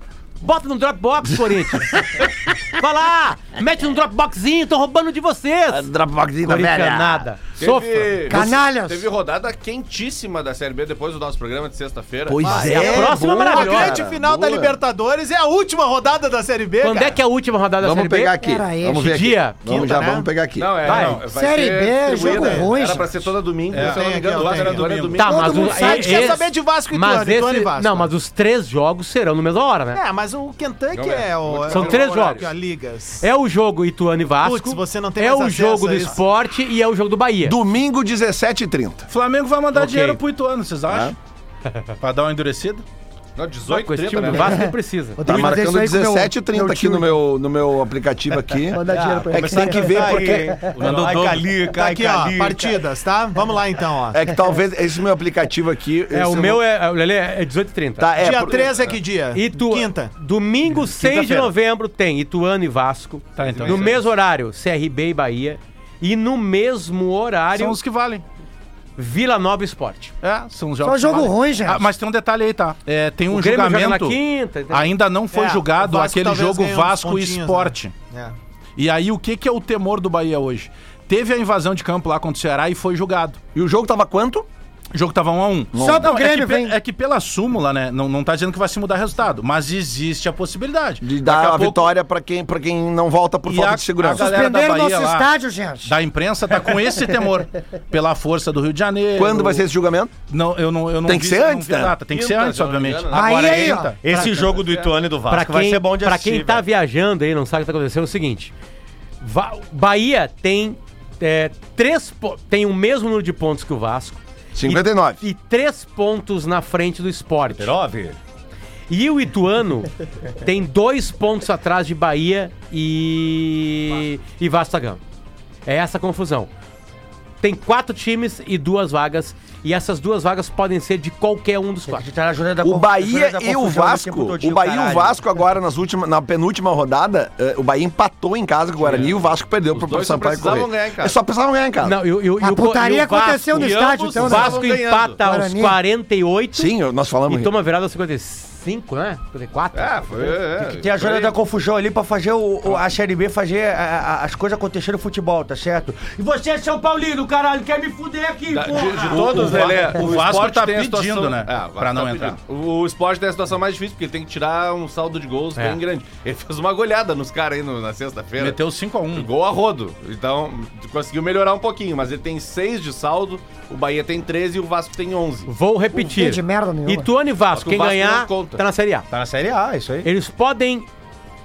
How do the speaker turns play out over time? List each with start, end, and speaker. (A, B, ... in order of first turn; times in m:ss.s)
0:00.4-0:05.9 A
0:05.7-0:07.2 B
0:06.4-0:08.5 A
0:07.6-0:12.6 C
0:08.3-0:09.1 D
0:12.3-0:14.8 B
0:12.4-0:17.2 E
0:12.5-0:14.0 A
0:16.8-0:18.4 A
0:17.8-0:20.8 B
0:18.4-0:19.1 D
0:18.9-0:20.2 A
0:19.6-0:20.3 E
0:20.6-0:25.8 C
0:20.8-0:21.2 F
0:20.8-0:21.2 A
0:21.2-0:23.1 D
0:22.1-0:22.8 E
0:23.7-0:25.2 F
0:23.8-0:25.0 E
0:25.2-0:30.0 A
0:25.2-0:26.4 D
0:25.5-0:28.1 E
0:29.9-0:33.2 E
0:30.9-0:32.5 C
0:31.7-0:32.5 A
0:33.2-0:37.6 A
0:34.4-0:36.2 E
0:37.4-0:39.1 B
0:39.1-0:41.2 F
0:39.8-0:40.2 A
0:40.9-0:41.2 B
0:42.0-0:42.8 F
0:43.4-0:44.7 C
0:43.7-0:45.6 A
0:44.4-0:47.1 D
0:45.2-0:50.5 B
0:48.7-0:50.9 D
0:48.9-0:52.8 G
0:50.6-0:51.5 F
0:51.7-0:54.4 E
0:54.1-0:56.6 B
0:56.1-0:58.1 A
0:58.0-0:58.8 B
0:58.2-1:00.1 E
0:59.3-1:07.8 A
1:00.9-1:01.5 G
1:03.4-1:04.0 F
1:03.4-1:04.0 C
1:07.6-1:08.2 F
1:09.0-1:10.1 A
1:10.2-1:14.2 F
1:10.8-1:11.9 D
1:13.3-1:14.9 A
1:14.7-1:17.9 F
1:15.3-1:18.4 E
1:18.8-1:23.4 F
1:23.5-1:24.5 B
1:24.9-1:31.9 F
1:25.7-1:26.1 B
1:25.8-1:26.8 D
1:31.0-1:34.4 B
1:33.5-1:35.3 F
1:34.1-1:35.9 D
1:35.8-1:39.7 F
1:39.2-1:40.1 B
1:40.3-1:44.0 F
1:41.0-1:42.0 B
1:42.1-1:43.8 C
1:43.1-1:44.0 D
1:44.0-1:46.6 G
1:44.1-1:44.6 A
1:44.4-1:45.0 C
1:45.3-1:48.5 A
1:49.2-1:57.8 A
1:54.5-1:55.2 B
1:57.6-1:58.2 G
1:58.9-2:05.0 A
2:05.7-2:06.5 A
2:07.4-2:12.1 A
2:11.9-2:15.2 G
2:12.6-2:22.0 B
2:18.9-2:19.1 C
2:19.7-2:21.2 C
2:21.8-2:26.7 A
2:22.4-2:24.7 D
2:23.5-2:25.2 C
2:25.2-2:25.8 D
2:26.6-2:27.5 B
2:27.3-2:30.0 A
2:29.7-2:31.4 C
2:30.6-2:40.0 G
2:38.5-2:48.6 C
2:39.1-2:42.4 F
2:48.4-2:49.3 F
2:49.1-2:55.5 C
2:55.5-2:59.0 A
2:55.9-2:57.1 D
2:57.5-2:58.6 C
2:59.1-3:00.1 G
3:00.0-3:00.9 A